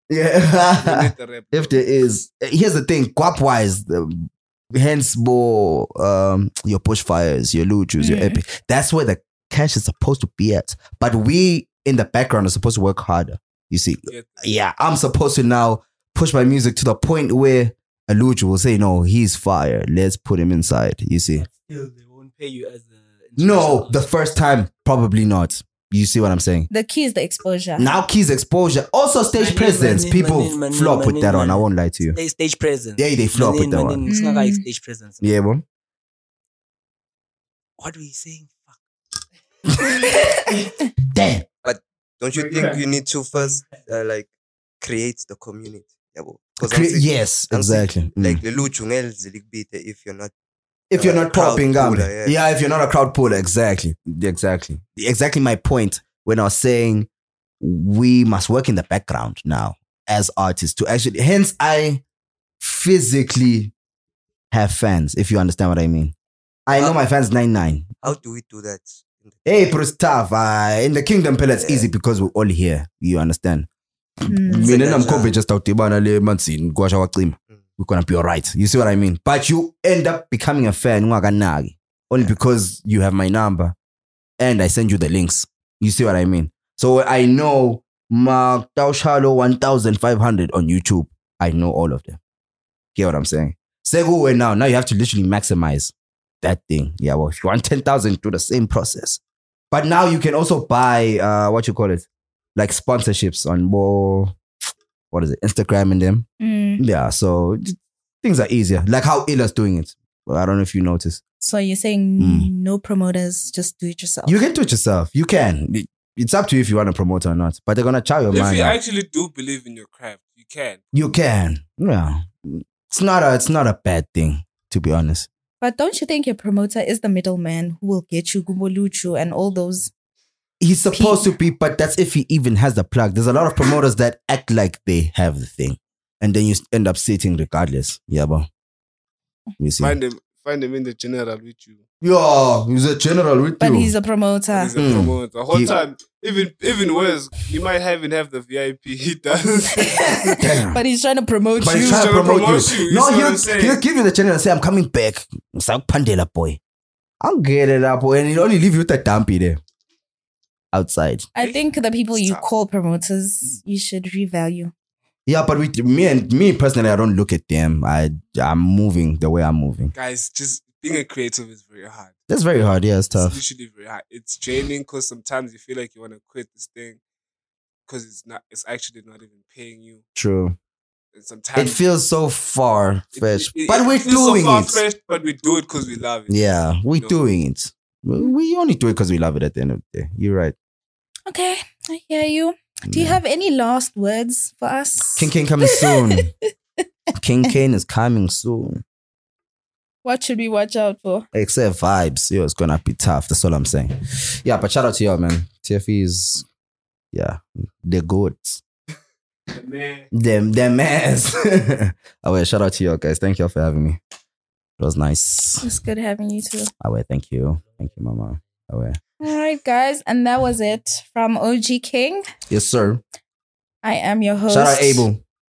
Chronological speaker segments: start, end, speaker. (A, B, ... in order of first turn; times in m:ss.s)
0:00.1-0:21.4 A
0:00.8-0:01.8 B
0:08.0-0:08.4 C
0:14.0-0:14.4 B
0:21.4-0:24.1 D
0:23.4-0:26.7 A
0:26.7-0:27.9 C
0:27.8-0:32.2 A
0:29.4-0:35.2 D
0:33.0-0:34.0 A
0:34.1-0:34.6 C
0:35.2-0:35.6 A
0:37.8-0:38.8 D
0:41.1-0:41.4 A
0:41.6-0:50.3 E
0:42.3-0:42.8 B
0:46.6-0:48.4 A
0:50.9-0:57.1 A
0:51.0-0:52.4 E
0:57.6-1:02.0 A
1:02.6-1:03.7 A
1:04.5-1:06.1 A
1:06.7-1:07.9 A
1:06.7-1:07.0 E
1:08.0-1:09.8 E
1:09.4-1:13.7 A
1:11.6-1:11.9 E
1:14.3-1:14.7 C
1:14.3-1:23.8 A
1:14.5-1:15.3 E
1:24.4-1:32.2 A
1:33.0-1:44.4 A
1:45.1-1:46.3 A
1:46.4-1:46.8 C
1:46.8-1:51.2 A
1:51.4-1:54.4 C
1:52.2-1:52.5 A
1:54.3-1:58.8 A
1:58.3-2:00.8 B
2:00.9-2:05.3 A
2:05.6-2:09.9 C
2:10.6-2:18.5 A
2:10.9-2:11.3 C
2:19.6-2:20.0 A
2:19.8-2:21.8 B
2:22.0-2:23.9 A
2:23.6-2:24.8 C
2:24.5-2:30.4 B
2:24.8-2:25.7 A
2:30.0-2:32.1 C
2:30.4-2:30.8 A
2:31.6-2:36.6 A
2:31.7-2:33.8 B
2:37.2-2:39.6 A
2:40.7-2:41.3 A
2:41.4-2:44.7 C
2:42.1-2:42.4 B
2:45.3-2:49.9 A
2:49.9-2:52.1 B
2:52.3-2:53.4 A
2:53.1-2:57.0 B
2:57.9-3:00.0 B
3:00.1-3:00.6 A
3:01.1-3:01.8 B
3:01.6-3:04.8 A
3:03.2-3:06.4 B
3:06.3-3:10.6 A
3:06.9-3:07.2 B
3:11.3-3:16.2 C
3:12.9-3:13.2 A
3:15.2-3:16.3 A
3:17.2-3:18.8 A
3:20.0-3:21.3 C
3:21.3-3:26.4 A
3:27.1-3:28.6 A
3:29.5-3:30.1 B
3:30.1-3:34.0 A
3:34.8-3:35.6 A
3:35.6-3:36.7 C
3:36.8-3:39.0 A
3:39.2-3:42.3 C
3:42.5-3:43.0 A
3:43.8-3:45.1 C
3:44.5-3:45.2 A